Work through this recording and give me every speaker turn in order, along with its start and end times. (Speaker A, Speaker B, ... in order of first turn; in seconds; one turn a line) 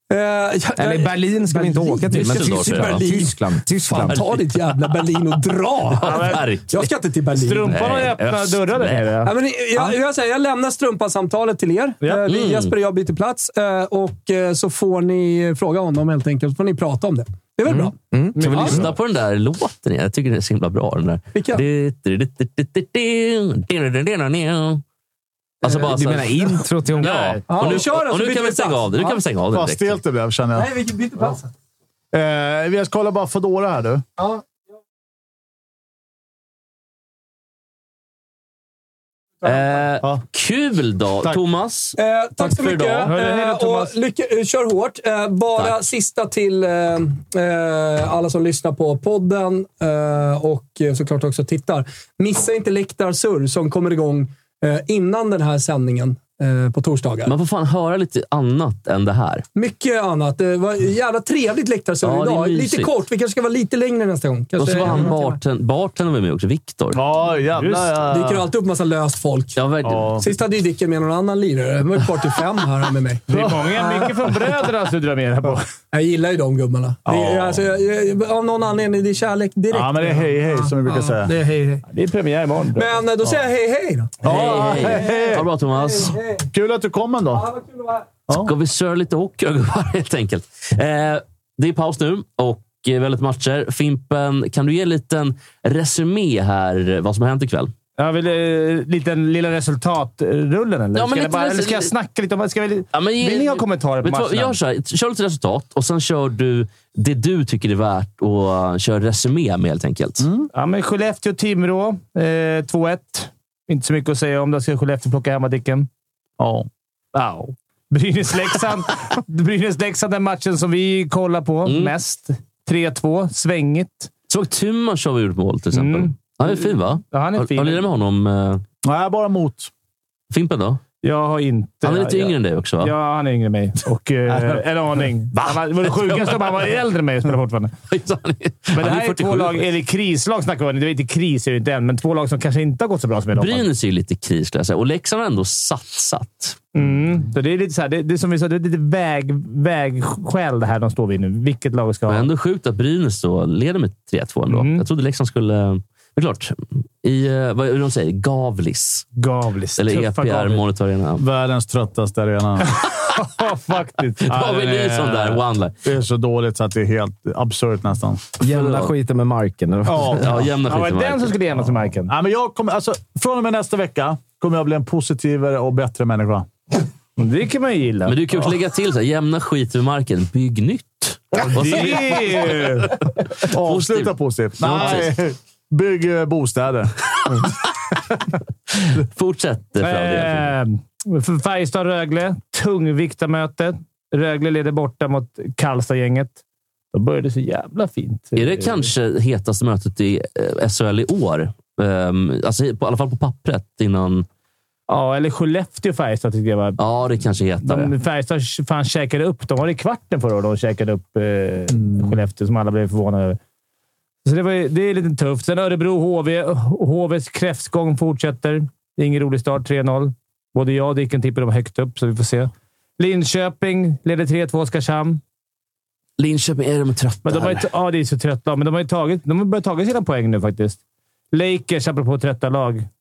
Speaker A: 0.1-3.4
Speaker B: 0.8-4.2
Speaker C: 2.1-3.0
Speaker A: 3.9-7.8
Speaker C: 4.0-4.5
Speaker C: 6.0-6.9
Speaker D: 6.0-6.5
Speaker D: 7.3-9.3
Speaker C: 7.7-9.1
Speaker A: 9.2-18.8
Speaker C: 12.2-12.7
Speaker B: 17.7-18.8
Speaker D: 18.4-18.9
Speaker C: 18.4-24.8
Speaker A: 21.3-21.6
Speaker C: 25.6-30.0
Speaker B: 25.7-27.4
Speaker D: 26.9-27.8
Speaker A: 27.5-29.2
Speaker E: 29.5-30.7
Speaker A: 30.6-31.5
Speaker E: 32.1-34.0
Speaker C: 39.4-43.1
Speaker A: 42.0-57.3
Speaker D: 43.1-43.9
Speaker C: 57.2-59.5
Speaker A: 59.5-65.4
Speaker C: 62.0-62.9
Speaker C: 64.6-67.0
Speaker E: 66.9-68.5
Speaker D: 67.5-68.0
Speaker A: 68.1-69.6
Speaker C: 69.5-70.1
Speaker E: 69.8-70.3
Speaker A: 70.2-74.1
Speaker D: 73.3-75.7
Speaker E: 73.3-74.1
Speaker A: 75.9-81.8
Speaker E: 77.0-77.6
Speaker E: 79.7-81.3
Speaker D: 81.9-83.0
Speaker A: 82.8-86.5
Speaker E: 84.2-85.5
Speaker C: 84.2-86.2
Speaker D: 84.3-84.8
Speaker E: 86.5-87.5
Speaker A: 87.3-88.0
Speaker C: 88.3-97.7
Speaker D: 98.0-104.6
Speaker C: 100.9-101.9
Speaker C: 102.9-110.2
Speaker E: 110.2-110.5
Speaker D: 110.5-115.9
Speaker E: 116.4-116.7
Speaker D: 117.1-124.1
Speaker C: 121.6-121.9
Speaker C: 124.3-128.6
Speaker D: 125.7-127.8
Speaker E: 128.8-129.7
Speaker C: 130.3-130.8
Speaker D: 131.0-137.8
Speaker C: 131.8-132.9
Speaker C: 135.3-136.4
Speaker C: 137.9-139.6
Speaker D: 138.7-143.7
Speaker C: 143.3-146.7
Speaker D: 146.7-152.3
Speaker C: 152.1-159.1
Speaker D: 154.5-154.8
Speaker D: 159.2-160.6
Speaker C: 159.8-161.2
Speaker E: 161.2-162.8
Speaker D: 162.8-164.3
Speaker C: 164.2-165.8
Speaker E: 164.3-168.2
Speaker B: 168.4-170.5
Speaker C: 168.4-168.9
Speaker E: 169.8-170.4
Speaker C: 170.2-171.3
Speaker D: 170.7-172.1
Speaker E: 172.1-176.5
Speaker D: 177.2-178.2
Speaker C: 178.0-182.9
Speaker E: 181.4-182.1
Speaker D: 181.5-183.0
Speaker E: 183.4-187.4
Speaker C: 183.6-185.1
Speaker C: 189.0-190.5
Speaker D: 189.8-196.3
Speaker D: 196.9-198.9
Speaker C: 198.3-204.2
Speaker D: 204.9-206.8
Speaker C: 206.8-207.9
Speaker D: 207.6-213.4
Speaker D: 214.2-225.2
Speaker C: 226.2-227.6
Speaker D: 227.2-230.8
Speaker D: 231.3-232.8